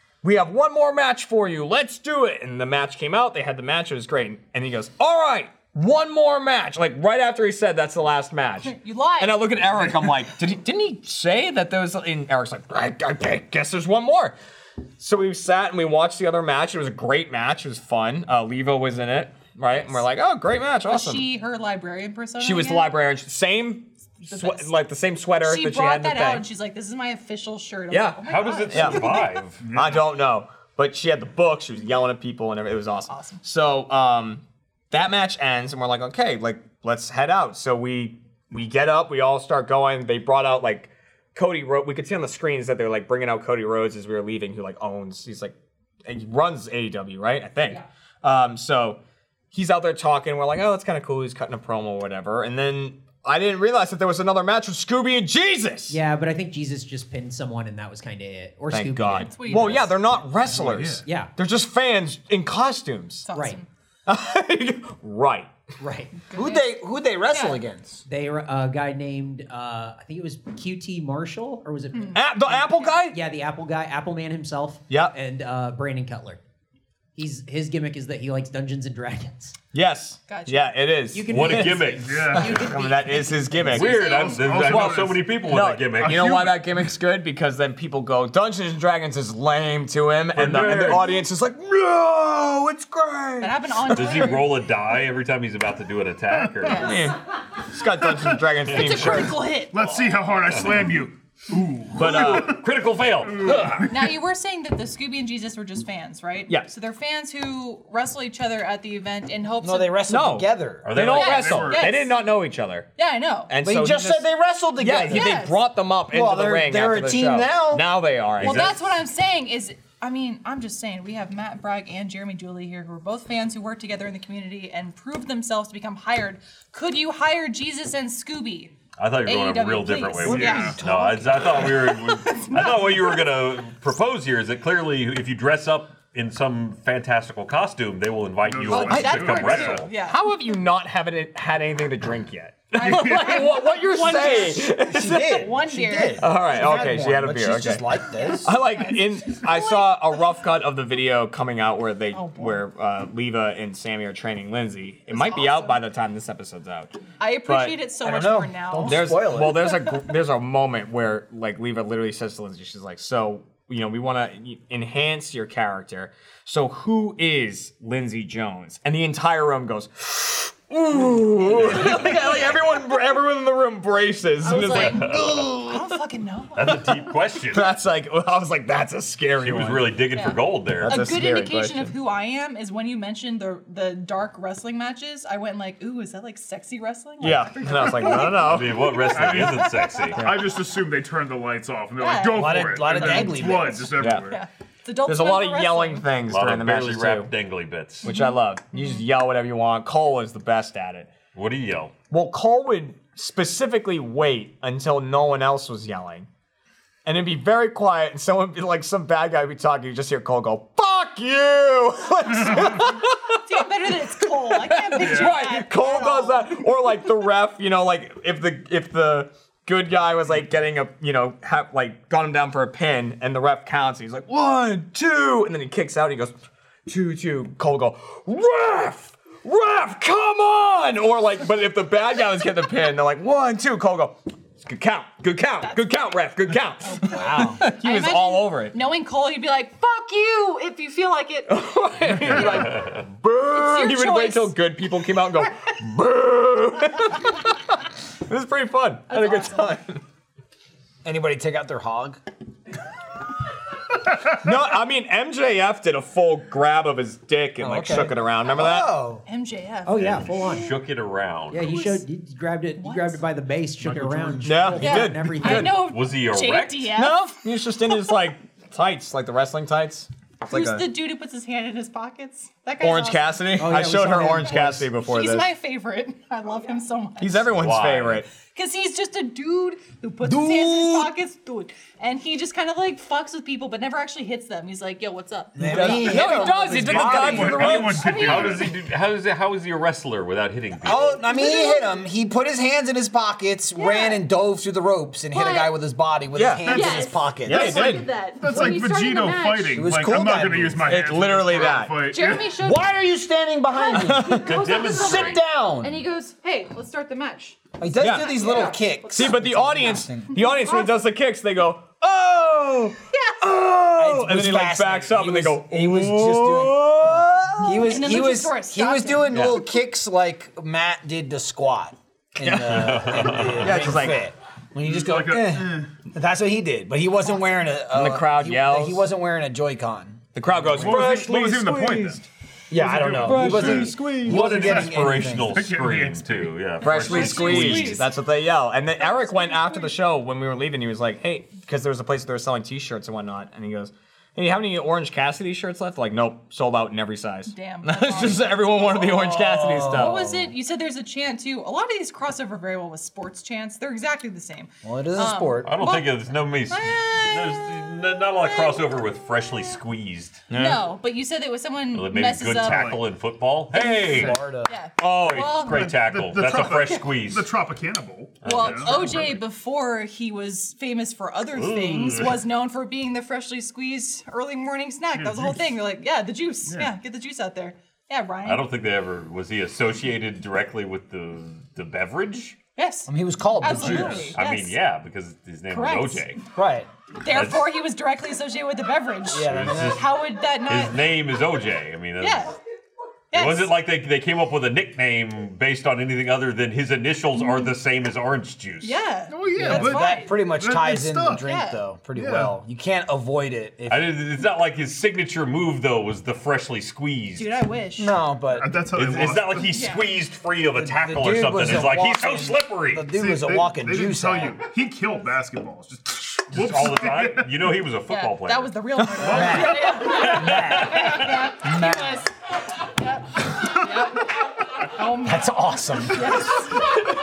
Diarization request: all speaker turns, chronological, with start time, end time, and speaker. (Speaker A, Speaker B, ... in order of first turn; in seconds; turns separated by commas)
Speaker A: 0.2-14.4, Speaker B: 8.7-9.5, Speaker A: 15.0-21.2, Speaker B: 20.9-22.9, Speaker A: 22.4-26.5, Speaker B: 24.3-24.7, Speaker B: 25.4-29.3, Speaker A: 27.9-29.2, Speaker C: 28.3-29.6, Speaker D: 29.6-30.1, Speaker A: 29.7-45.5, Speaker B: 33.1-33.4, Speaker A: 46.1-49.0, Speaker A: 49.5-56.0, Speaker E: 55.9-59.8, Speaker A: 58.7-63.3, Speaker B: 59.2-59.9, Speaker D: 60.5-61.0, Speaker E: 61.0-61.3, Speaker B: 63.3-63.7, Speaker E: 63.3-63.6, Speaker A: 64.1-65.5, Speaker E: 65.8-66.2, Speaker B: 66.3-66.7, Speaker F: 66.3-68.0, Speaker B: 67.3-67.6, Speaker E: 68.1-76.4, Speaker B: 71.9-72.2, Speaker A: 72.2-73.2, Speaker A: 74.9-75.2, Speaker E: 77.2-79.6, Speaker A: 79.7-81.8, Speaker B: 80.3-80.6, Speaker E: 81.1-83.3, Speaker C: 81.3-82.5, Speaker D: 82.0-82.6, Speaker B: 82.3-84.8, Speaker A: 82.4-84.1, Speaker C: 83.7-86.5, Speaker D: 84.0-85.4, Speaker A: 84.7-94.4, Speaker D: 86.0-86.7, Speaker C: 90.3-91.1, Speaker B: 93.4-94.6, Speaker C: 94.0-97.0, Speaker B: 96.6-97.1, Speaker A: 96.7-99.3, Speaker B: 98.7-100.2, Speaker C: 98.7-99.2, Speaker D: 99.7-102.6, Speaker C: 100.5-101.0, Speaker A: 101.9-102.6, Speaker C: 102.0-103.7, Speaker D: 103.3-104.1, Speaker A: 103.5-103.8, Speaker B: 103.8-110.0, Speaker F: 109.6-110.9, Speaker A: 110.1-112.9, Speaker C: 110.8-111.6, Speaker D: 111.0-112.0, Speaker B: 111.1-112.1, Speaker B: 113.0-113.5, Speaker A: 113.5-118.8, Speaker F: 113.6-115.4, Speaker B: 115.1-115.6, Speaker F: 116.1-117.9, Speaker C: 118.4-118.7, Speaker B: 118.4-128.7, Speaker C: 129.0-139.9, Speaker B: 129.2-130.8, Speaker D: 130.2-130.8, Speaker F: 130.2-131.7, Speaker B: 131.6-133.1, Speaker D: 138.4-139.8, Speaker A: 138.7-139.2, Speaker B: 138.7-140.2, Speaker A: 139.9-145.6, Speaker B: 142.7-146.3, Speaker F: 144.3-148.6, Speaker A: 146.2-157.8, Speaker B: 148.2-150.1, Speaker B: 152.1-152.6, Speaker B: 155.1-155.8, Speaker B: 157.2-160.1, Speaker F: 158.0-159.8, Speaker A: 158.8-176.0, Speaker B: 174.4-176.9, Speaker C: 174.6-175.4, Speaker C: 176.6-177.7, Speaker A: 177.5-180.0, Speaker C: 179.4-181.0, Speaker B: 180.2-190.0, Speaker A: 180.8-181.9, Speaker A: 187.2-188.9, Speaker C: 188.1-190.3, Speaker D: 189.1-194.4, Speaker A: 190.2-190.4, Speaker B: 192.0-193.4, Speaker F: 192.3-194.0, Speaker A: 194.0-194.3, Speaker B: 194.3-196.1, Speaker A: 195.1-197.3, Speaker C: 196.3-198.1, Speaker A: 198.0-201.1, Speaker B: 198.0-199.0, Speaker C: 201.3-201.9, Speaker A: 202.1-206.3, Speaker A: 207.1-213.4, Speaker B: 213.4-216.5, Speaker A: 214.2-226.3, Speaker D: 215.0-215.4, Speaker A: 226.9-238.8, Speaker B: 235.6-236.0, Speaker B: 236.8-241.6, Speaker F: 237.0-237.7, Speaker A: 241.5-250.0, Speaker B: 242.1-242.9, Speaker C: 242.7-243.0, Speaker B: 243.5-244.6, Speaker B: 249.1-249.7, Speaker F: 251.1-252.2, Speaker A: 254.4-258.9, Speaker F: 257.6-259.2, Speaker B: 259.3-260.7, Speaker E: 259.9-260.7, Speaker C: 259.9-261.7, Speaker E: 261.5-265.9, Speaker B: 261.6-262.1, Speaker B: 262.8-263.2, Speaker D: 263.8-264.8, Speaker A: 264.4-265.7, Speaker B: 264.8-267.2, Speaker C: 265.8-266.9, Speaker A: 266.9-270.9, Speaker B: 270.5-273.4, Speaker A: 272.8-275.5, Speaker E: 273.6-274.9, Speaker B: 275.0-277.5, Speaker A: 277.2-278.3, Speaker C: 277.5-278.2, Speaker B: 278.6-288.7, Speaker F: 280.3-281.1, Speaker F: 285.6-288.0, Speaker A: 285.6-288.2, Speaker D: 286.6-288.7, Speaker C: 288.1-291.2, Speaker F: 290.8-298.0, Speaker B: 291.2-292.0, Speaker B: 293.8-294.2, Speaker B: 295.3-295.8, Speaker A: 296.3-296.9, Speaker B: 296.6-299.9, Speaker A: 297.4-298.1, Speaker D: 298.4-302.6, Speaker F: 299.7-300.9, Speaker A: 300.8-302.0, Speaker B: 301.9-302.9, Speaker F: 302.6-306.0, Speaker B: 303.7-309.7, Speaker A: 303.9-304.5, Speaker C: 304.4-305.4, Speaker F: 307.8-310.3, Speaker A: 307.9-318.0, Speaker B: 310.3-311.0, Speaker B: 313.1-313.4, Speaker F: 314.0-330.2, Speaker B: 317.8-319.5, Speaker A: 322.4-324.3, Speaker C: 322.7-323.9, Speaker D: 324.8-325.9, Speaker A: 327.9-329.1, Speaker A: 330.4-334.5, Speaker D: 330.7-336.6, Speaker F: 333.1-335.8, Speaker C: 334.2-338.1, Speaker B: 336.8-338.1, Speaker A: 336.8-350.5, Speaker B: 339.0-339.9, Speaker B: 347.5-349.1, Speaker C: 349.0-349.9, Speaker B: 349.9-357.7, Speaker F: 354.8-355.8, Speaker C: 355.6-360.4, Speaker B: 358.4-358.9, Speaker A: 360.5-360.8, Speaker B: 360.5-362.9, Speaker C: 361.9-364.4, Speaker D: 362.6-363.1, Speaker F: 363.8-364.7, Speaker B: 364.1-366.0, Speaker C: 365.0-367.5, Speaker D: 365.4-369.2, Speaker B: 366.6-367.0, Speaker C: 368.4-369.4, Speaker B: 368.4-378.7, Speaker C: 371.5-372.4, Speaker D: 375.1-375.7, Speaker D: 376.7-376.9, Speaker C: 378.4-382.6, Speaker B: 382.8-384.8, Speaker F: 383.1-384.4, Speaker D: 383.8-384.3, Speaker C: 383.9-386.4, Speaker B: 385.7-386.3, Speaker F: 386.5-386.9, Speaker B: 387.2-391.0, Speaker C: 387.3-387.7, Speaker F: 389.3-390.0, Speaker C: 389.4-392.5, Speaker B: 392.2-392.6, Speaker B: 393.3-393.7, Speaker C: 393.3-399.0, Speaker B: 397.4-397.7, Speaker B: 398.8-400.3, Speaker D: 399.3-401.5, Speaker F: 399.5-404.1, Speaker B: 401.4-401.8, Speaker D: 402.1-402.5, Speaker C: 403.9-407.5, Speaker B: 407.4-408.1, Speaker F: 408.0-408.9, Speaker D: 408.5-409.7, Speaker C: 408.9-413.1, Speaker B: 409.7-410.0, Speaker F: 410.8-414.6, Speaker D: 413.1-417.7, Speaker C: 416.5-421.5, Speaker B: 418.1-425.5, Speaker A: 419.0-419.4, Speaker F: 419.3-422.3, Speaker D: 419.3-419.6, Speaker F: 425.2-426.5, Speaker B: 426.1-426.9